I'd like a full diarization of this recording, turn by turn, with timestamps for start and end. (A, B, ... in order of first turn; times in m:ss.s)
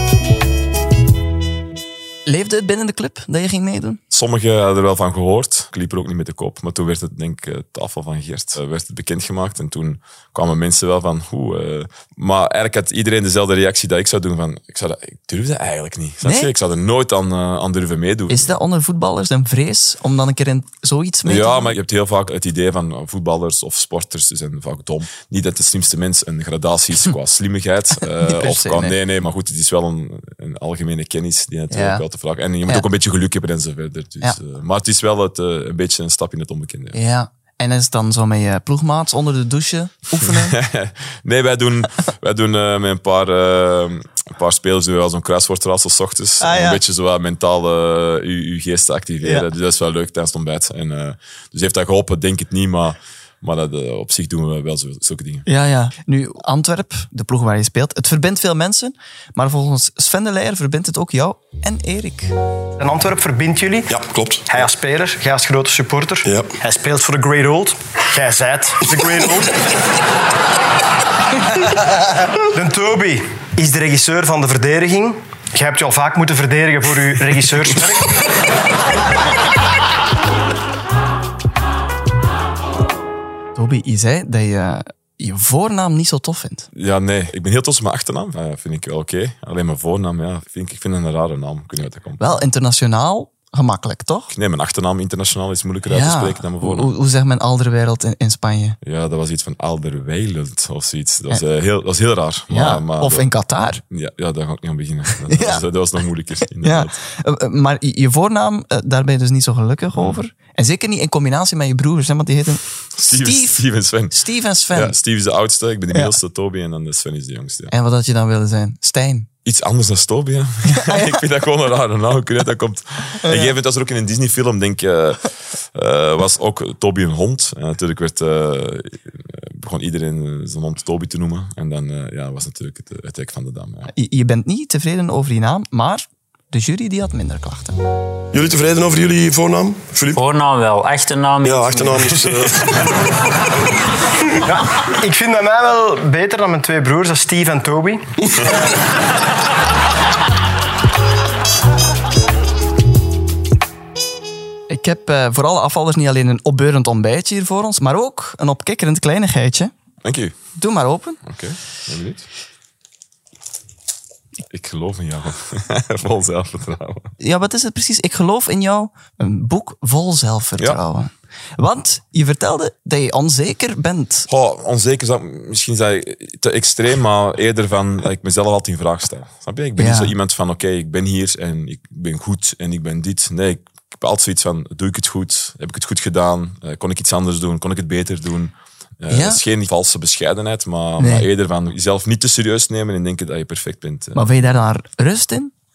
0:02.3-0:04.0 A
0:04.1-0:18.5 B
0:16.2-0:16.5 A
0:18.3-0:21.8 A
0:21.2-0:37.0 B
0:28.2-0:29.0 A
0:31.7-0:32.0 A
0:36.9-0:40.6 A
0:40.2-0:55.5 B
0:46.4-0:46.8 A
0:49.2-0:49.5 A
0:55.5-1:02.3 A
1:02.8-1:03.9 C
1:03.9-1:04.7 D
1:04.5-1:09.5 C
1:06.2-1:06.6 D
1:12.5-1:18.2 C
1:23.6-1:26.7 A
1:26.7-1:32.5 B
1:32.2-1:34.3 A
1:34.3-1:36.9 B
1:35.9-1:38.8 A
1:38.8-1:43.3 B
1:42.5-1:43.8 A
1:43.9-1:47.0 B
1:45.3-1:45.6 A
1:46.6-1:55.0 A
1:50.0-1:50.2 B
1:53.0-1:54.2 B
1:54.7-1:57.7 B
1:57.7-1:59.3 A
1:59.4-2:13.9 B
2:00.7-2:01.2 A
2:03.2-2:03.6 A
2:13.9-2:17.8 A
2:18.3-2:20.2 D
2:20.1-2:22.2 E
2:21.4-2:23.0 D
2:24.5-2:28.0 C
2:34.7-2:39.7 A
2:40.0-2:40.4 B
2:40.6-2:41.2 A
2:41.3-2:42.3 B
2:44.5-2:47.1 B
2:47.2-2:54.3 A
2:54.3-3:14.2 B
2:59.8-3:00.1 A
3:09.1-3:09.4 A
3:11.0-3:11.3 A
3:14.1-3:15.5 A